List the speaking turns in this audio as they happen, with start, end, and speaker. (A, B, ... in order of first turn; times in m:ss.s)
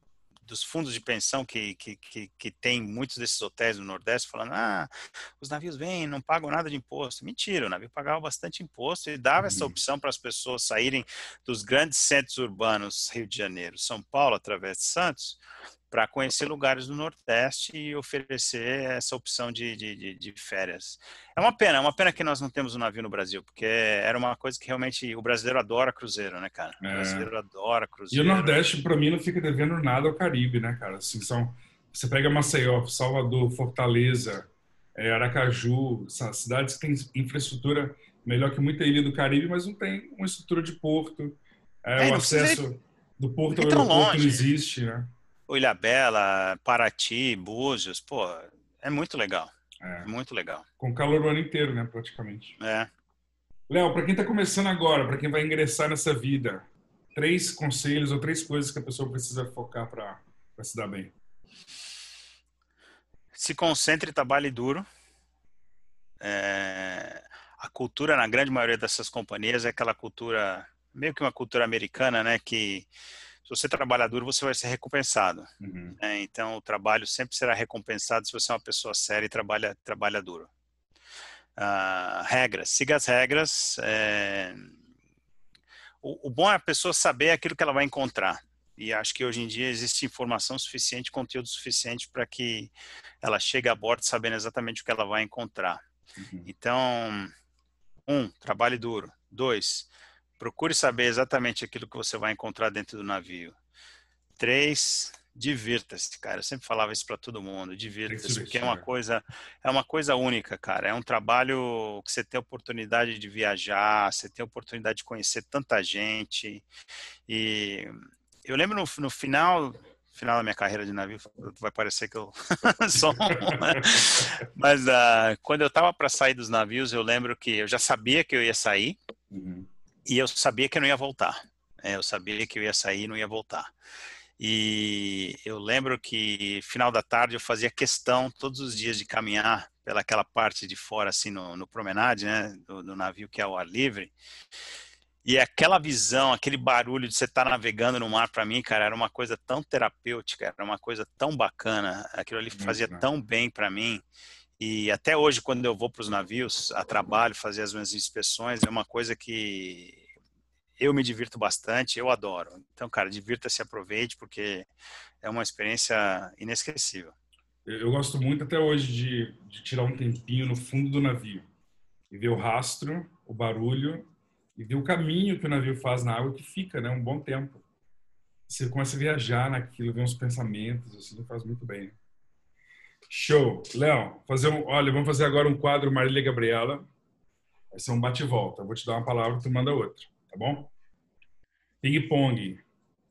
0:00.4-0:28.6 A
0:09.4-0:09.8 B
0:26.8-0:27.3 B
0:28.1-0:45.1 B
0:42.0-0:42.6 A
0:43.5-0:44.5 A
0:45.5-0:50.6 A
0:49.8-0:50.1 B
0:50.8-0:52.6 B
0:52.6-0:52.9 A
0:53.7-1:01.1 B
1:03.3-1:04.9 A
1:06.2-1:12.9 A
1:13.4-1:20.5 A
1:15.6-1:16.0 B
1:21.6-1:24.7 A
1:26.0-1:35.8 A
1:36.2-1:36.5 B
1:36.5-1:37.3 A
1:38.1-1:43.6 A
1:44.4-1:56.6 A
1:48.1-1:48.8 B
1:57.3-2:09.0 A
2:03.3-2:04.2 B
2:09.3-2:09.7 B
2:10.1-2:13.7 A
2:14.4-2:24.1 A
2:25.2-2:34.0 A
2:32.5-2:33.0 B
2:34.6-2:40.0 A
2:40.8-2:44.7 A
2:45.2-2:47.2 A
2:47.6-2:51.5 B
2:52.1-2:57.6 B
2:58.5-3:02.0 B
3:03.1-3:06.9 B
3:07.7-3:10.7 B
3:11.8-3:12.6 B